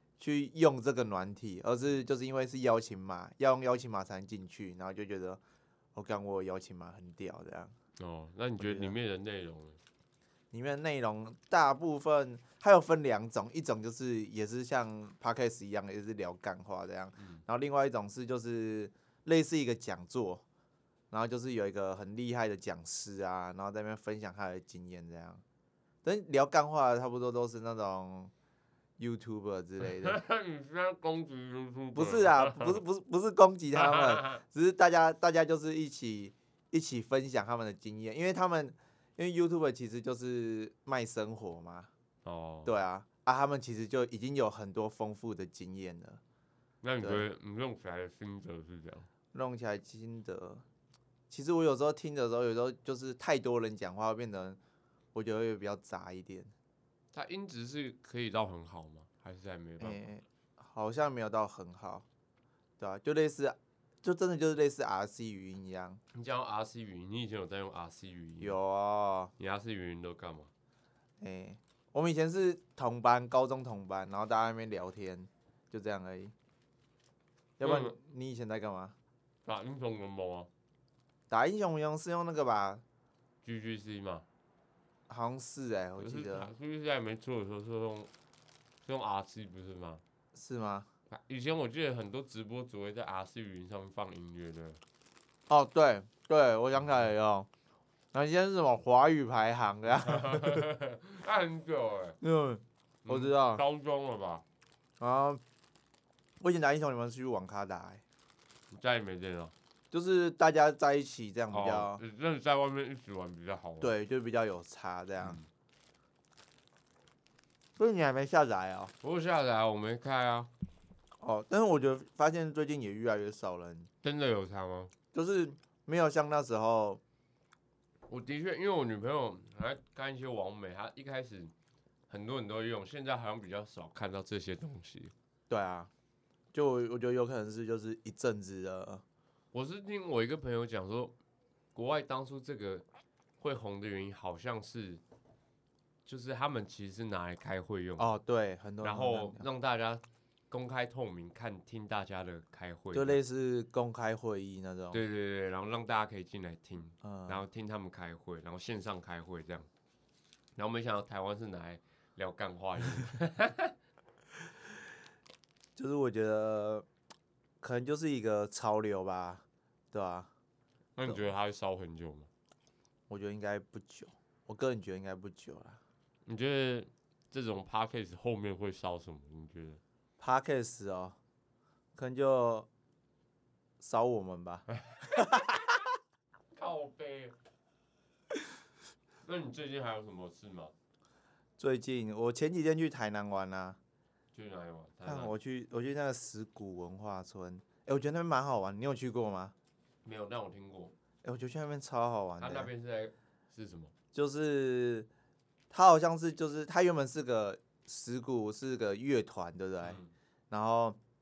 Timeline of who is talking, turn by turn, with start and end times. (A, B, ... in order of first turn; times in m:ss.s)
0:00.2-0:05.4 A
0:06.0-0:07.7 A
0:08.0-0:09.8 B
0:08.6-0:08.9 A
0:10.5-0:20.4 A
0:21.1-0:25.4 A
0:26.0-0:28.3 A
0:29.0-0:30.2 A
0:29.8-0:32.8 B
0:32.0-0:41.9 A
0:33.8-0:34.4 B
0:42.2-0:42.7 B
0:42.6-0:46.2 A
0:46.8-0:49.1 B
0:49.3-0:50.6 A
0:51.3-0:54.6 A
0:55.1-0:56.5 A
0:57.1-1:00.0 B
0:59.8-1:02.0 A
1:02.8-1:06.0 A
1:06.1-1:08.6 B
1:08.4-1:09.3 A
1:09.4-1:10.5 B
1:11.2-1:16.3 A
1:17.6-1:19.0 A
1:17.6-1:18.0 B
1:19.4-1:20.5 B
1:21.3-1:22.8 A
1:23.4-1:24.2 B
1:25.1-1:26.5 A
1:26.0-1:28.1 B
1:28.8-1:30.0 B
1:30.3-1:30.9 A
1:31.1-1:34.8 B
1:35.5-1:37.5 A
1:38.1-1:40.6 A
1:40.0-1:42.2 B
1:42.2-1:43.6 A
1:43.0-1:44.4 B
1:45.0-1:45.4 A
1:46.4-1:48.0 A
1:48.7-1:49.5 B
1:49.9-1:52.0 A
1:51.5-1:53.9 B
1:53.8-1:55.4 A
1:55.2-1:55.5 B
1:57.8-1:58.9 A
1:59.0-2:00.5 B
2:01.2-2:03.9 A
2:04.0-2:04.9 B
2:05.1-2:07.0 A
2:08.1-2:11.5 B
2:12.1-2:15.1 B
2:15.5-2:15.9 A
2:16.5-2:19.0 A
2:19.5-2:21.2 B
2:21.8-2:22.8 B
2:23.4-2:25.0 B
2:26.1-2:28.1 B
2:28.0-2:29.4 A
2:28.8-2:33.2 B
2:32.9-2:35.0 A
2:34.9-2:39.7 B
2:37.0-2:37.4 A
2:40.6-2:43.7 B
2:45.8-2:46.9 A
2:47.6-2:50.3 A
2:51.0-2:52.3 B
2:53.1-2:55.8 A
2:56.3-2:59.8 B
3:00.2-3:01.2 A
3:02.0-3:02.7 A
3:03.8-3:05.6 A
3:06.5-3:07.3 B
3:09.2-3:10.7 B
3:11.6-3:13.8 A
3:14.3-3:15.3 B
3:15.0-3:19.5 A
3:20.0-3:20.9 B
3:21.2-3:22.7 A
3:22.4-3:23.9 B
3:24.1-3:25.1 A
3:25.7-3:30.0 A
3:29.8-3:30.1 B
3:30.5-3:31.0 A